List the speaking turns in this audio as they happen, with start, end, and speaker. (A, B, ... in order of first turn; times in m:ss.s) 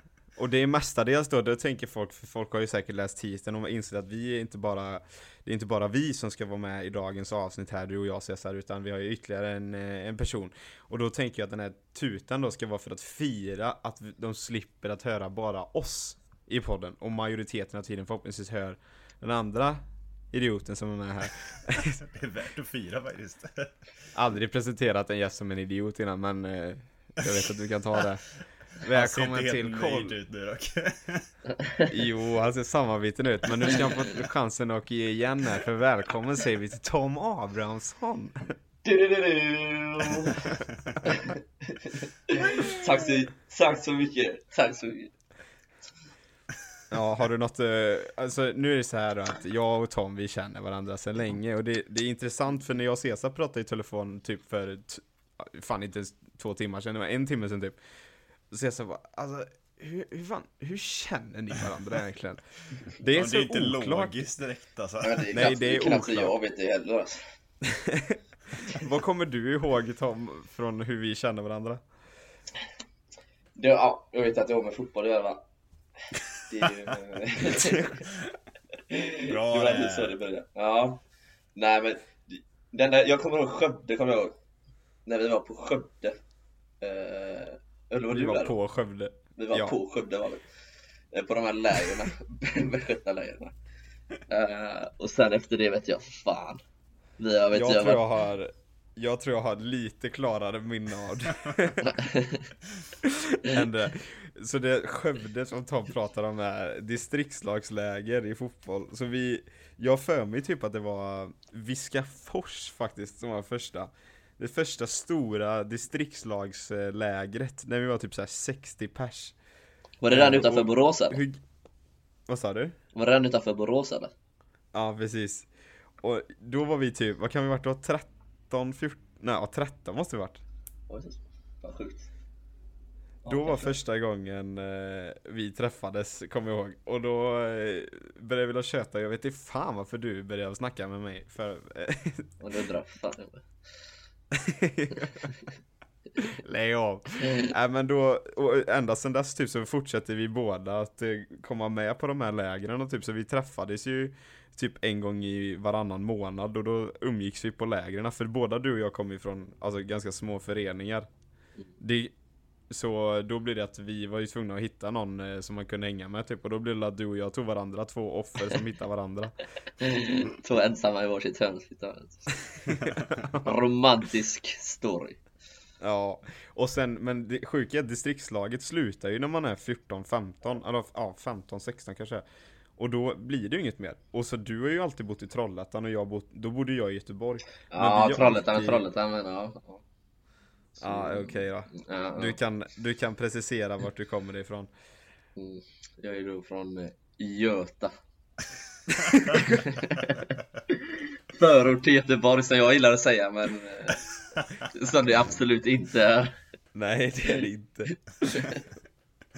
0:00.4-0:22.0 A
0:22.0-0:23.7 B
0:24.2-0:30.2 A
0:28.8-0:31.3 B
0:31.9-0:38.4 A
0:38.8-0:45.2 C
0:46.9-0:57.8 A
0:58.5-1:04.3 A
1:03.0-1:05.6 B
1:05.0-1:07.4 C
1:05.3-1:06.4 A
1:07.6-1:11.8 A
1:13.6-1:15.4 C
1:16.1-1:18.1 C
1:17.5-1:17.9 A
1:18.7-1:21.0 C
1:19.3-1:20.2 B
1:21.6-1:24.4 C
1:25.1-1:26.2 C
1:26.8-1:28.5 C
1:28.1-1:29.8 A
1:29.4-1:30.4 C
1:31.1-1:33.6 C
1:34.3-1:36.6 C
1:37.2-1:38.0 C
1:37.5-1:42.0 A
1:41.8-1:42.5 C
1:43.0-1:59.4 A
2:00.0-2:01.2 C
2:00.1-2:01.4 A
2:02.3-2:02.8 A
2:02.9-2:04.1 C
2:04.7-2:05.5 A
2:06.0-2:10.4 A
2:10.9-2:12.1 C
2:13.2-2:13.8 C
2:13.3-2:22.3 A
2:22.4-2:23.5 C
2:24.3-2:25.3 A
2:26.2-2:41.1 A
2:41.8-2:42.1 A
2:42.7-2:49.4 A
2:49.8-2:52.4 C
2:52.7-2:53.6 A
2:53.4-2:55.2 C
2:55.8-3:02.2 A
3:02.8-3:08.8 A
3:07.7-3:09.8 C
3:10.8-3:12.4 C
3:10.8-3:14.7 A
3:15.4-3:17.9 C
3:19.0-3:19.6 A
3:19.3-3:24.0 C
3:24.6-3:26.4 C
3:26.7-3:28.5 A
3:28.2-3:28.6 C